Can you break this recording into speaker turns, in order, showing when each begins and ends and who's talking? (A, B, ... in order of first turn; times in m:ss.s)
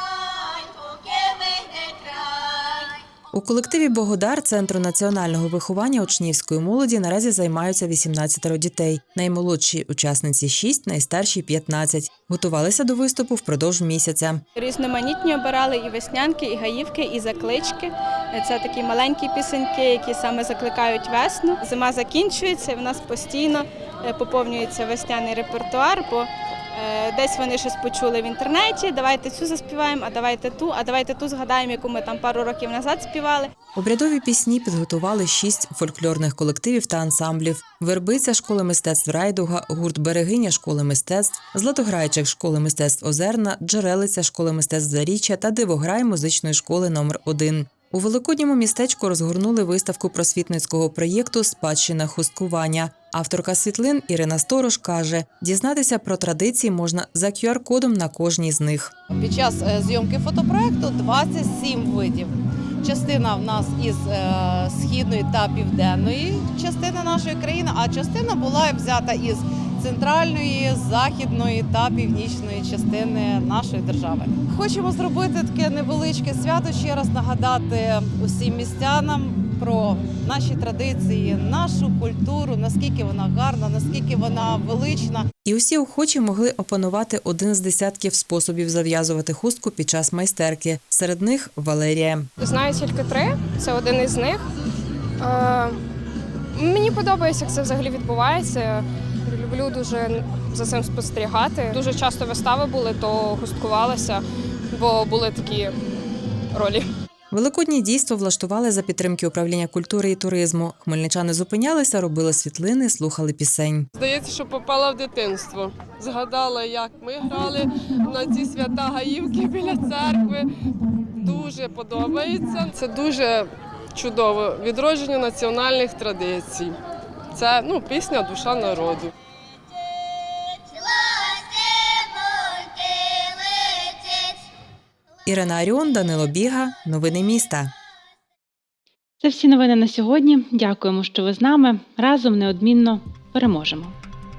0:03.3-0:14.4 A
0:14.6-0:33.5 B
0:33.8-0:58.9 A
0:59.1-1:25.3 C
1:25.4-1:32.3 A
1:32.4-1:34.4 D
1:35.2-1:35.7 D
1:36.6-1:44.2 D
1:44.7-1:45.7 D
1:47.3-1:53.9 A
1:54.0-2:00.5 E
2:01.2-2:06.8 E
2:07.3-2:09.1 E
2:15.2-2:17.7 A
2:19.2-2:24.0 F